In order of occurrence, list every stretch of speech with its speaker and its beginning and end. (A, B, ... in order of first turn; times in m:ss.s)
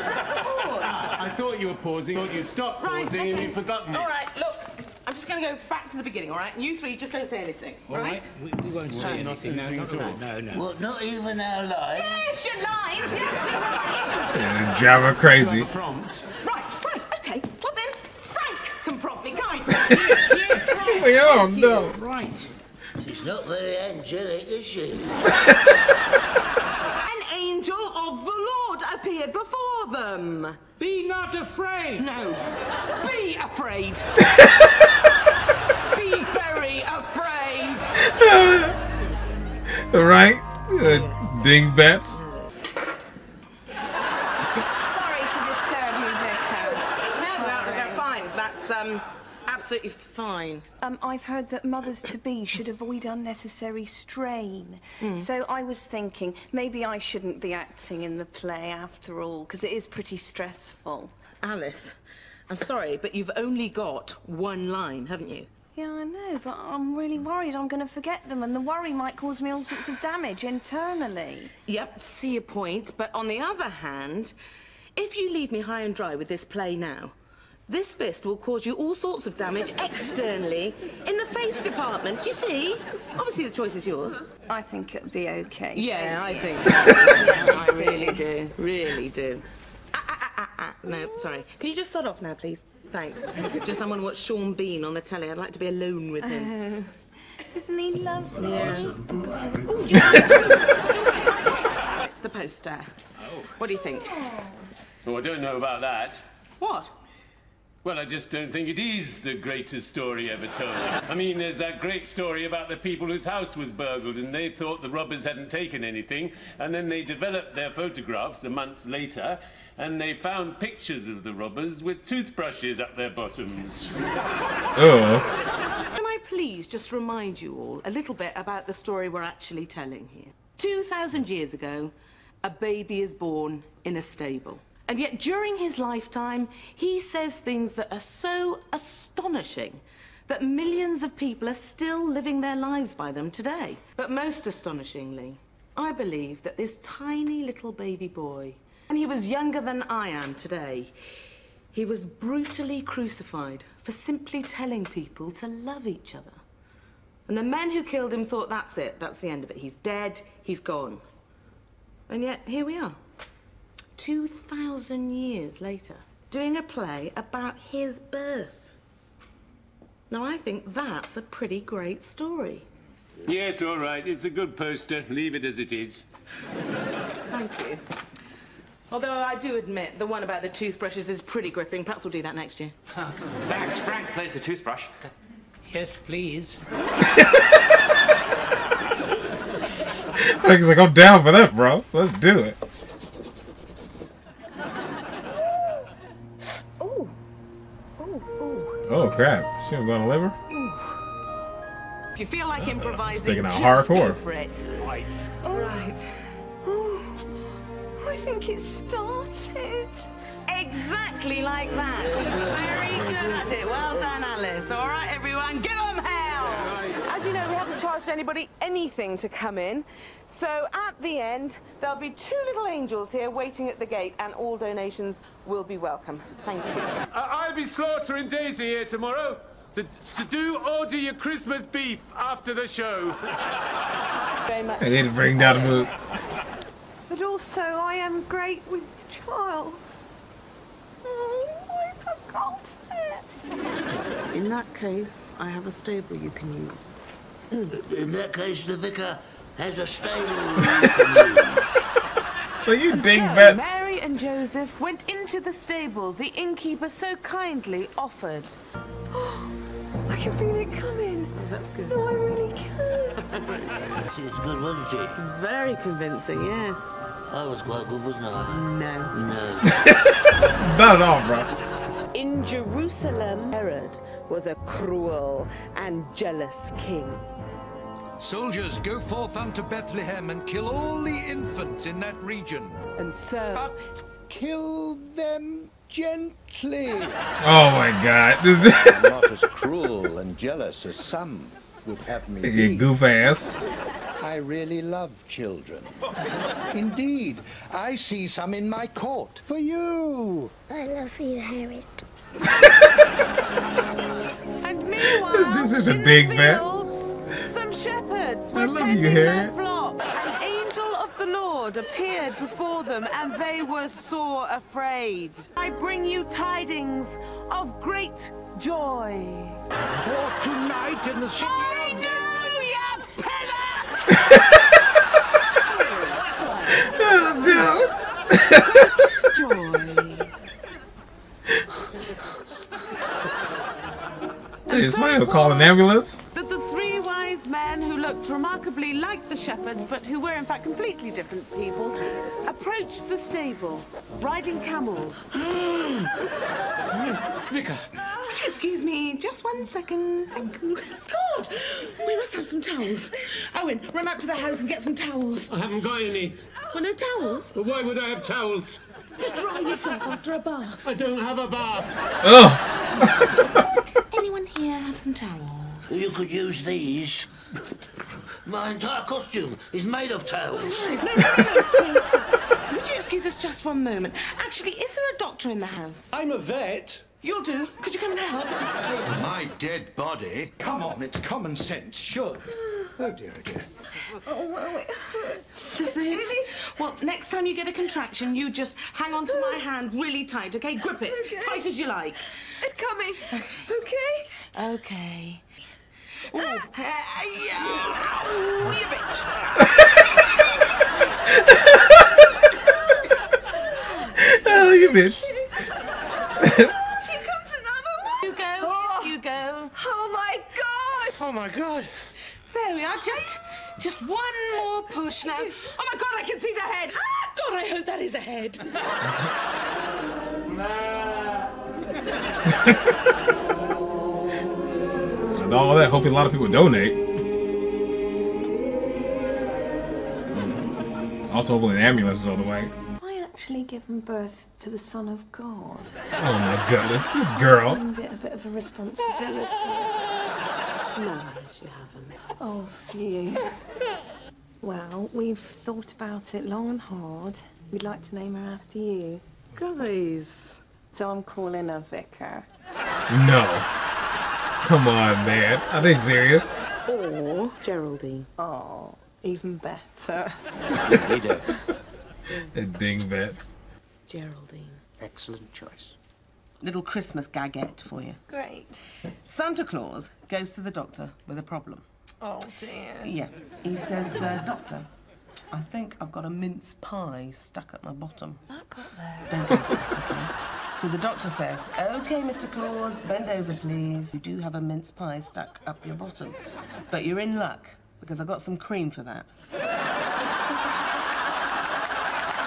0:00.2-0:01.0 A
0:00.8-0:04.1 B
0:02.8-0:08.3 A
0:07.9-0:10.6 C
0:08.8-0:10.3 B
0:09.0-0:09.3 A
0:10.5-0:12.3 D
0:11.9-0:14.5 A
0:14.3-0:15.7 E
0:15.1-0:16.3 B
0:16.4-0:20.3 A
0:20.1-0:22.5 C
0:20.8-0:22.0 E
0:23.0-0:25.2 D
0:27.0-0:30.8 A
0:30.8-0:32.4 C
0:32.9-0:34.1 A
0:35.9-0:37.9 A
0:38.0-0:38.8 E
0:39.7-0:42.2 E
0:40.8-0:42.5 A
0:44.8-0:48.1 F
0:47.1-0:50.7 A
0:50.8-1:01.1 F
0:55.0-0:55.3 A
1:01.4-1:02.0 A
1:02.5-1:05.5 A
1:05.7-1:11.5 F
1:11.7-1:14.3 A
1:15.0-1:17.1 A
1:17.7-1:24.2 A
1:24.5-1:28.2 F
1:25.7-1:36.5 A
1:36.2-1:38.9 F
1:38.4-1:38.9 A
1:39.4-1:40.3 F
1:39.6-1:42.9 A
1:43.6-1:44.2 A
1:43.8-1:44.7 F
1:45.0-1:46.2 B
1:46.6-1:46.9 A
1:47.8-2:03.9 B
2:04.8-2:05.3 E
2:05.8-2:30.9 A
2:31.7-2:36.4 A
2:37.3-2:41.0 A
2:42.1-2:43.0 A
2:44.0-2:48.7 A
2:50.1-2:52.6 A
2:53.2-2:56.0 B
2:57.3-2:57.8 A
2:58.9-3:02.7 A
3:03.0-3:05.1 G
3:05.6-3:06.6 C
3:10.2-3:12.6 E
3:16.8-3:17.1 F
3:18.0-3:18.8 F
3:18.9-3:20.3 E
3:20.5-3:20.8 F
3:22.1-3:24.8 A
3:22.6-3:24.2 E
3:25.4-3:26.1 A
3:25.4-3:25.8 F
3:26.6-3:27.4 F
3:28.0-3:30.1 F
3:30.5-3:47.0 A
3:31.9-3:34.1 D
3:36.4-3:37.0 B
3:47.1-3:53.2 B
3:54.5-3:55.0 A
3:54.8-3:55.9 E
3:57.1-3:59.8 F
4:01.0-4:03.2 F
4:04.3-4:06.9 A
4:07.7-4:11.8 D
4:12.6-4:13.8 E
4:12.9-4:18.6 A
4:19.1-4:19.5 F
4:20.1-4:21.3 F
4:21.3-4:22.0 A
4:21.9-4:23.2 F
4:24.0-4:25.2 D
4:25.2-4:26.9 A
4:27.3-4:29.9 D
4:28.5-4:29.1 A
4:29.8-4:31.5 E
4:32.1-4:37.2 A
4:38.2-4:42.8 H
4:43.0-4:43.7 A
4:43.5-4:47.2 H
4:47.4-4:49.1 E
4:48.8-4:52.9 H
4:52.4-4:53.6 E
4:54.2-4:56.0 H
4:56.7-5:00.5 H
5:02.6-5:02.8 E
5:04.6-5:19.6 A
5:05.1-5:06.6 E
5:08.5-5:09.5 E
5:19.9-5:22.6 C
5:21.4-5:24.2 A
5:24.2-5:24.6 E
5:25.5-5:27.8 A
5:26.8-5:28.6 E
5:28.5-5:30.3 A
5:34.7-5:35.7 A
5:34.7-5:36.2 E
5:36.3-5:45.4 A
5:45.5-5:46.1 B
5:46.9-5:47.9 B
5:48.2-5:55.5 A
5:55.5-5:56.4 B
5:56.7-5:57.5 A
5:57.5-5:58.8 B
5:59.2-6:00.9 A
6:00.8-6:01.9 B
6:02.2-6:03.1 E
6:03.5-6:05.9 A
6:05.9-6:07.3 D
6:08.4-6:11.3 D
6:10.6-6:16.1 A
6:16.1-6:17.0 B
6:17.2-6:18.6 A
6:19.0-6:23.7 H
6:24.1-6:26.6 F
6:25.6-6:32.3 A
6:29.3-6:29.6 F
6:31.1-6:31.6 F
6:32.5-6:34.4 F
6:33.3-6:33.7 A
6:34.5-6:35.4 A
6:36.3-6:39.8 A
6:36.3-6:36.6 F
6:41.5-6:42.0 E
6:43.8-6:44.1 A
6:44.2-6:45.3 E
6:44.2-6:45.7 F
6:46.4-6:49.1 F
6:48.2-6:49.7 A
6:49.7-6:51.2 F
6:51.2-6:51.9 G
6:52.5-6:58.7 A
7:02.5-7:02.9 E
7:05.3-7:07.0 E
7:10.3-7:10.7 E
7:11.3-7:12.7 E
7:13.0-7:16.0 F
7:16.2-7:17.8 E
7:17.4-7:20.0 F
7:20.9-7:22.3 A
7:22.4-7:23.6 F
7:24.6-7:29.2 F
7:29.6-7:30.6 A
7:30.9-7:32.5 F
7:33.1-7:33.7 E
7:34.6-7:36.6 E
7:36.9-7:38.3 A
7:38.4-7:40.4 F
7:40.9-7:41.4 G
7:42.3-7:42.6 A
7:42.5-7:43.5 E
7:44.1-7:44.8 A
7:45.0-7:45.9 G
7:46.6-7:48.2 A
7:48.3-7:48.8 F
7:49.2-7:51.8 A
7:52.2-7:53.1 F
7:53.0-7:54.9 A
7:55.5-7:58.5 A
7:58.5-7:59.4 F
7:59.3-8:06.4 A
8:06.9-8:09.3 A